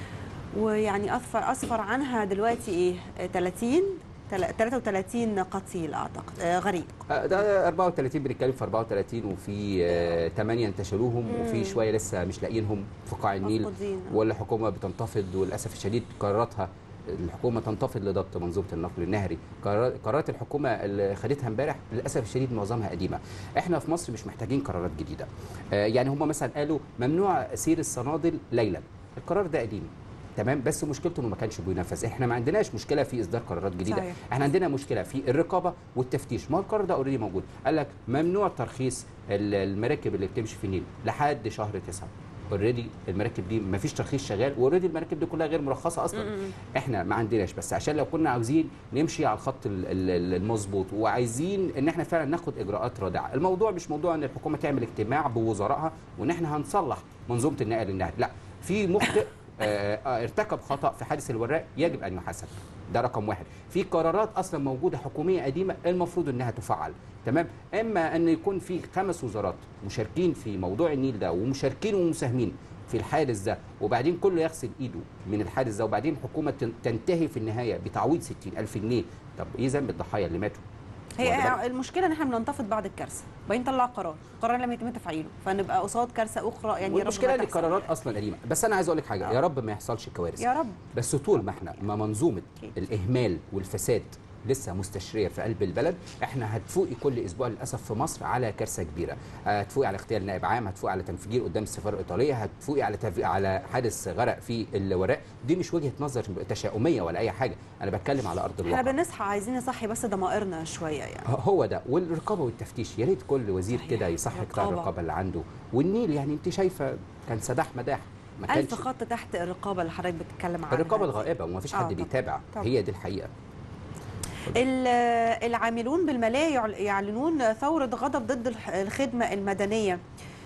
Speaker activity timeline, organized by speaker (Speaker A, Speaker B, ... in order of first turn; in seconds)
Speaker A: 0.6-7.0, 11.3-11.8, 13.4-14.2, 33.9-34.2, 81.2-87.9, 90.4-90.8, 108.7-111.3, 113.7-114.9, 118.5-122.7, 124.5-130.0
Speaker B: 7.1-80.6, 81.2-81.6, 86.8-108.9, 111.3-118.9, 120.7-123.3